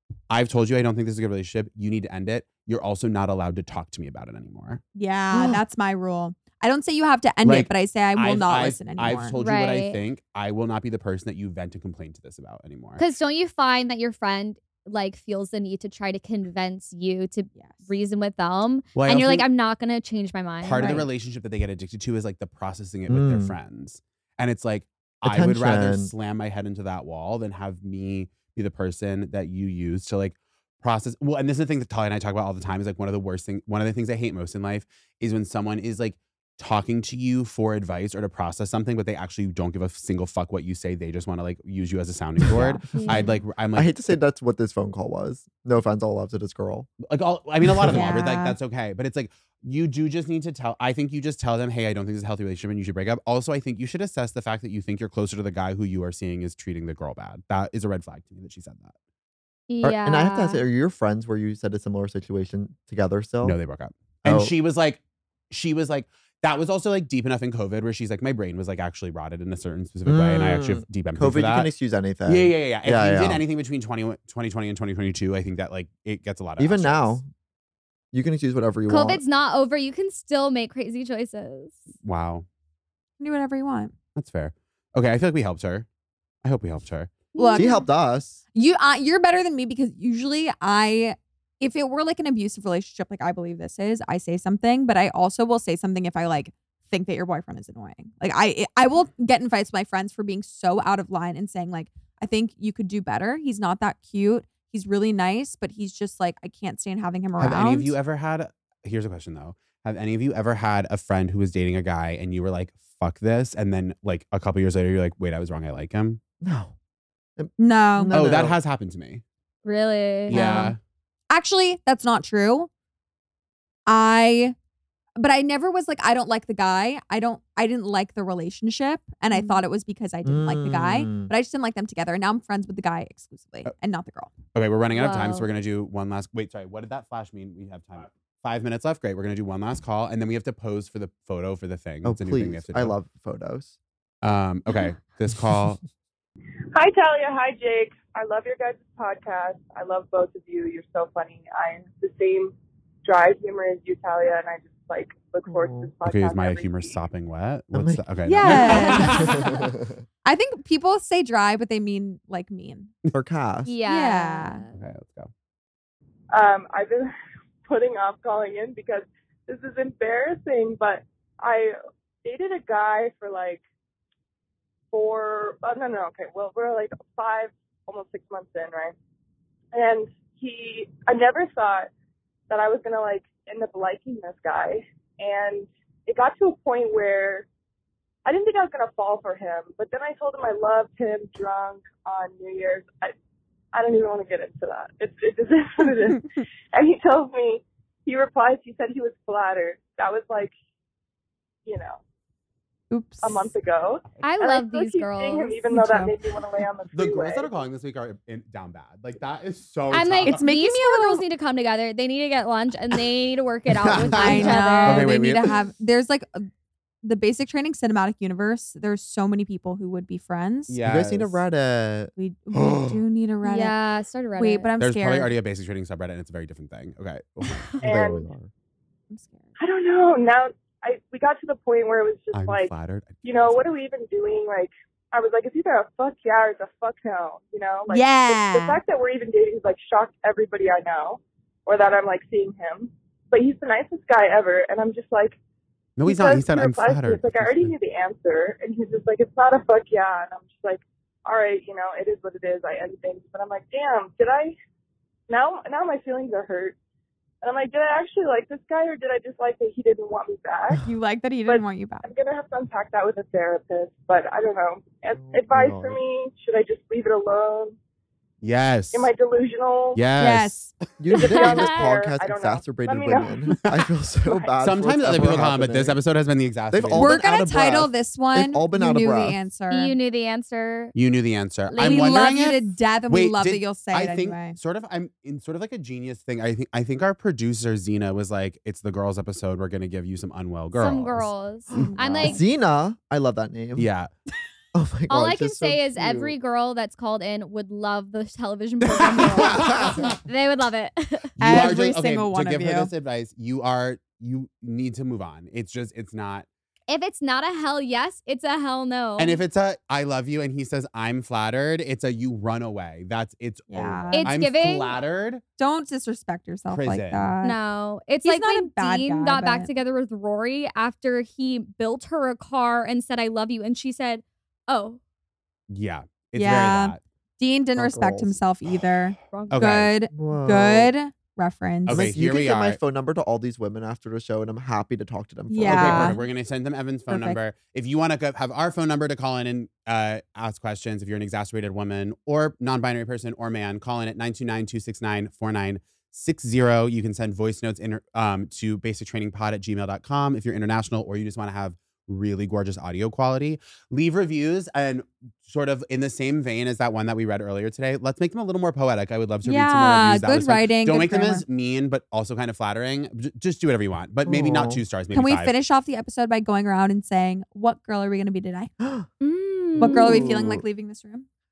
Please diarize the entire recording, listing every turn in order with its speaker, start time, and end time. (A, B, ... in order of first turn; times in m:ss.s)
0:00.3-0:04.8 A
0:04.9-0:09.4 B
0:05.3-0:05.6 C
0:07.4-0:13.0 A
0:09.4-0:10.0 D
0:13.0-0:21.0 D
0:17.5-0:17.9 B
0:18.9-0:19.4 A
0:20.6-0:44.1 A
0:20.6-0:21.0 B
0:23.1-0:23.5 C
0:25.2-0:26.1 C
0:42.5-0:43.3 B
0:43.7-0:46.9 C
0:47.0-0:58.9 A
0:47.7-0:48.1 C
0:47.9-0:48.6 B
0:59.7-1:00.6 D
0:59.8-1:03.6 C
1:03.4-1:05.0 A
1:04.2-1:04.5 C
1:05.5-1:11.7 A
1:10.0-1:13.4 C
1:12.2-1:17.2 A
1:16.6-1:17.3 C
1:18.1-1:19.2 C
1:18.9-1:21.8 D
1:22.0-1:22.4 A
1:23.2-1:23.9 B
1:24.2-1:25.8 A
1:26.4-1:27.3 A
1:27.4-1:27.7 D
1:27.4-1:27.8 B
1:27.5-1:28.4 C
1:28.5-1:47.9 B
1:47.4-1:56.2 A
1:56.4-1:56.7 C
1:57.4-1:58.6 C
1:57.6-1:58.1 B
1:58.1-1:59.2 A
1:59.6-2:00.7 D
2:00.3-2:00.7 B
2:00.3-2:00.8 A
2:01.3-2:02.7 B
2:03.9-2:04.5 B
2:05.2-2:14.3 B
2:09.3-2:09.6 D
2:10.2-2:11.3 C
2:14.5-2:22.9 A
2:14.9-2:15.5 D
2:22.0-2:23.8 C
2:24.2-2:25.8 A
2:26.7-2:32.5 E
2:33.0-2:37.0 E
2:35.5-2:35.9 C
2:36.0-2:39.4 A
2:37.7-2:40.0 C
2:38.2-2:39.5 B
2:40.2-2:42.9 B
2:43.1-2:43.8 C
2:43.6-2:44.8 D
2:43.8-2:44.6 B
2:44.7-2:45.3 A
2:46.3-2:47.1 E
2:47.7-2:51.7 E
2:52.2-2:53.6 E
2:54.9-2:58.9 E
2:59.7-3:01.9 E
3:02.5-3:07.4 E
3:08.2-3:13.1 E
3:13.7-3:20.5 E
3:21.6-3:22.0 E
3:22.9-3:23.5 B
3:23.2-3:27.5 E
3:24.2-3:25.6 D
3:25.7-3:26.2 B
3:26.9-3:30.4 A
3:29.9-3:35.1 D
3:30.2-3:31.2 B
3:34.1-3:35.5 A
3:34.1-3:36.5 B
3:37.0-3:40.8 B
3:40.7-3:41.4 A
3:40.8-3:42.1 C
3:42.2-3:43.7 B
3:43.4-3:44.7 D
3:44.4-3:45.3 B
3:44.8-3:47.7 A
3:47.8-3:48.3 E
3:47.8-3:48.5 C
3:49.1-3:49.5 B
3:49.6-3:52.7 E
3:52.3-3:53.7 A
3:53.2-4:05.4 E
3:57.9-3:58.8 B
4:06.0-4:07.7 A
4:06.0-4:14.5 E
4:15.3-4:16.7 E
4:17.4-4:20.8 E
4:20.8-4:22.0 B
4:21.5-4:27.7 E
4:25.1-4:26.0 C
4:28.4-4:29.1 A
4:28.9-4:30.0 E
4:29.9-4:30.7 A
4:30.2-4:30.7 B
4:31.0-4:36.0 C
4:31.1-4:31.7 D
4:31.2-4:33.4 E
4:34.6-4:37.1 A
4:36.7-4:39.4 C
4:36.9-4:40.0 B
4:39.7-4:40.9 D
4:40.9-4:51.9 A
4:41.7-4:42.2 D
4:41.8-4:44.6 B
4:50.8-4:52.4 D
4:51.7-4:53.9 C
4:51.8-4:52.4 B
4:53.8-4:54.1 A
4:54.7-4:56.3 C
4:55.1-5:01.3 D
4:59.2-5:00.2 A
5:01.4-5:06.4 A
5:01.4-5:02.9 B
5:06.9-5:09.4 D
5:09.2-5:15.4 A
5:13.7-5:14.3 B
5:14.1-5:15.0 D
5:15.6-5:17.6 B
5:16.7-5:17.3 A
5:17.4-5:25.0 D
5:18.2-5:19.7 B
5:25.7-5:27.0 A
5:26.4-5:32.1 B
5:27.7-5:28.4 C
5:29.3-5:29.6 D
5:29.5-5:29.9 A
5:30.1-5:30.9 C
5:31.8-5:32.8 A
5:31.9-5:36.2 C
5:35.5-5:36.2 B
5:35.6-6:05.5 A
5:37.1-5:37.4 B
5:59.4-6:01.4 B
6:04.2-6:04.8 C
6:05.1-6:08.7 B
6:08.8-6:09.1 C
6:09.2-6:10.2 D
6:09.8-6:10.6 C
6:09.8-6:11.2 B